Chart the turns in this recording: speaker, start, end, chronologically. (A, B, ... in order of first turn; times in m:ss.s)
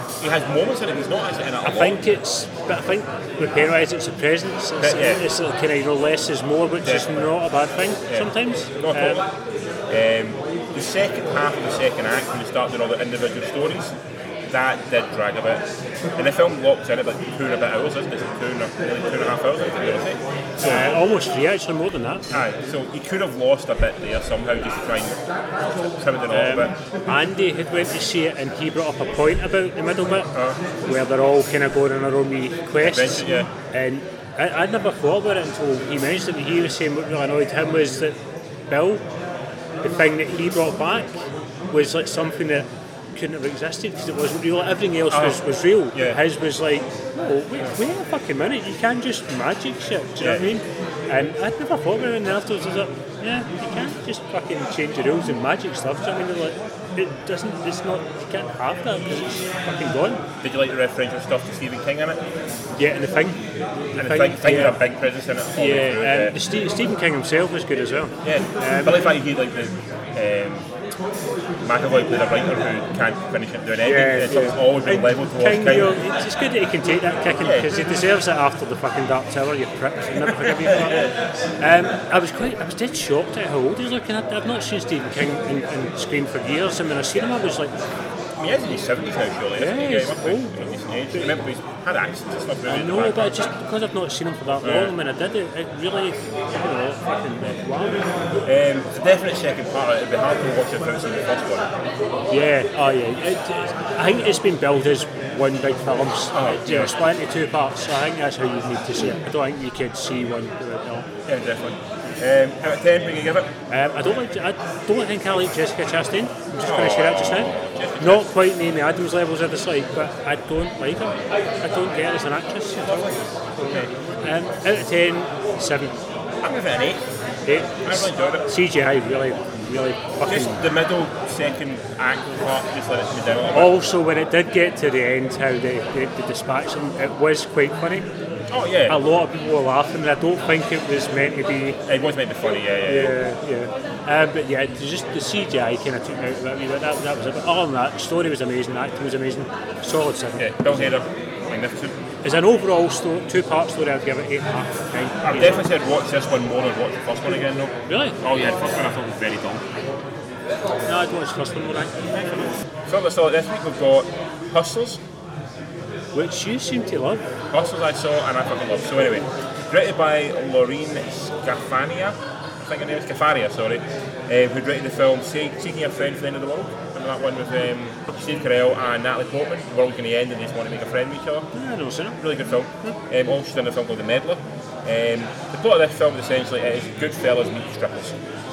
0:00.2-0:02.0 A
0:01.6-0:09.2 B
0:04.8-0:05.2 A
0:06.8-0:07.3 A
0:08.1-0:09.2 A
0:09.9-0:13.9 A
0:14.5-0:15.6 A
0:16.2-0:21.0 A
0:20.6-0:22.3 B
0:22.3-0:26.7 A
0:26.3-0:30.3 B
0:30.3-0:30.6 A
0:30.8-0:38.2 B
0:32.8-0:33.5 A
0:38.7-0:39.0 B
0:39.8-1:00.2 B
0:45.1-0:46.2 A
0:50.2-0:50.4 A
1:00.4-1:02.2 A
1:02.8-1:03.4 B
1:03.9-1:04.8 B
1:04.0-1:06.4 A
1:05.5-1:09.1 B
1:08.2-1:10.7 A
1:11.6-1:16.0 A
1:13.8-1:21.1 B
1:17.4-1:17.7 A
1:20.2-1:21.1 A
1:21.6-1:27.7 B
1:28.4-1:33.5 A
1:29.6-1:30.5 B
1:32.6-1:38.0 B
1:34.6-1:34.9 A
1:38.4-1:41.8 A
1:42.3-1:51.1 B
1:46.3-1:46.9 A
1:51.2-1:53.5 A
1:53.7-2:03.1 B
1:56.6-1:58.3 A
2:02.8-2:03.9 A
2:04.2-2:05.9 B
2:06.4-2:07.0 A
2:07.4-2:10.6 B
2:07.8-2:08.5 A
2:10.2-2:13.8 A
2:13.5-2:18.1 B
2:18.5-2:19.0 A
2:18.9-2:21.8 B
2:21.8-2:23.2 A
2:22.8-2:30.9 B
2:30.4-2:32.0 A
2:32.2-2:35.6 B
2:35.2-2:39.6 A
2:37.9-2:38.2 B
2:40.8-2:42.5 B
2:42.9-2:45.0 A
2:46.1-2:47.2 B
2:47.5-3:01.5 A
3:01.5-3:02.2 B
3:02.2-3:08.2 A